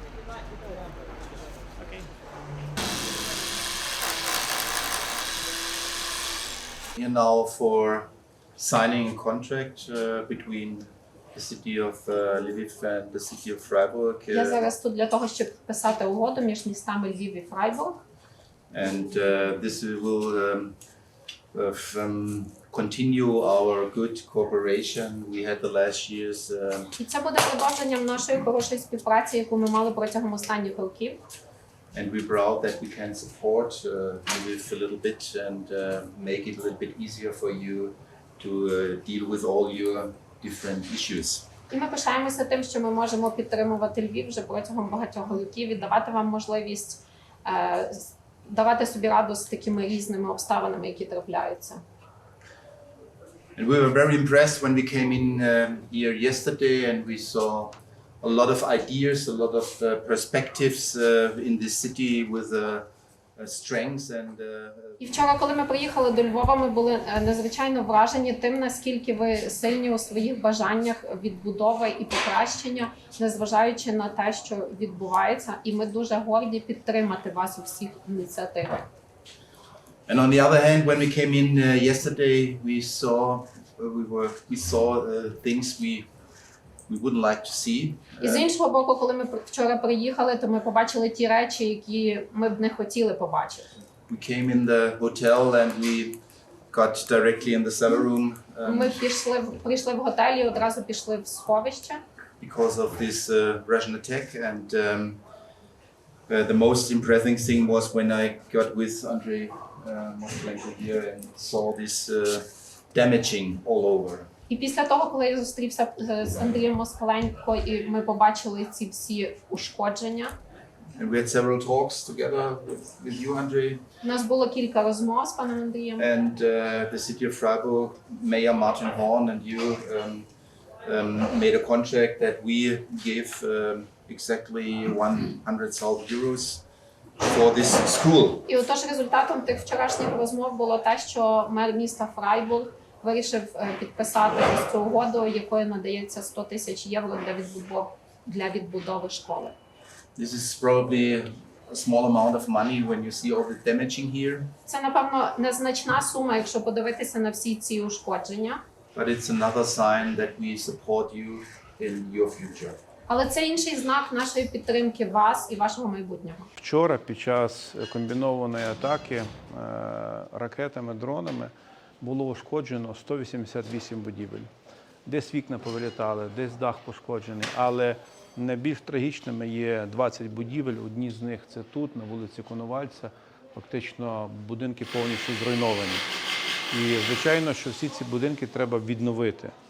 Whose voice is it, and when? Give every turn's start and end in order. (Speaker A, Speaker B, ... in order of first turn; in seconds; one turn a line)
Speaker A: 7.0-14.7
Speaker B: 14.3-18.0
Speaker A: 18.7-20.8
Speaker A: 21.5-26.9
Speaker B: 26.9-31.2
Speaker A: 31.9-41.5
Speaker B: 41.7-51.8
Speaker A: 53.5-65.0
Speaker B: 65.0-78.9
Speaker A: 80.1-86.1
Speaker A: 86.9-88.5
Speaker B: 88.2-93.7
Speaker A: 94.1-99.0
Speaker B: 98.6-102.0
Speaker A: 102.4-105.2
Speaker A: 106.3-114.3
Speaker B: 114.5-120.3
Speaker A: 121.0-123.8
Speaker B: 124.0-126.1
Speaker A: 126.0-130.3
Speaker A: 130.8-136.6
Speaker A: 137.2-138.4
Speaker B: 138.5-149.6
Speaker A: 150.2-154.5
Speaker B: 154.7-158.6
Speaker A: 158.9-162.8
Speaker B: 163.1-166.5
Speaker C: 166.6-174.5
Speaker C: 175.0-186.0
Speaker C: 186.7-189.5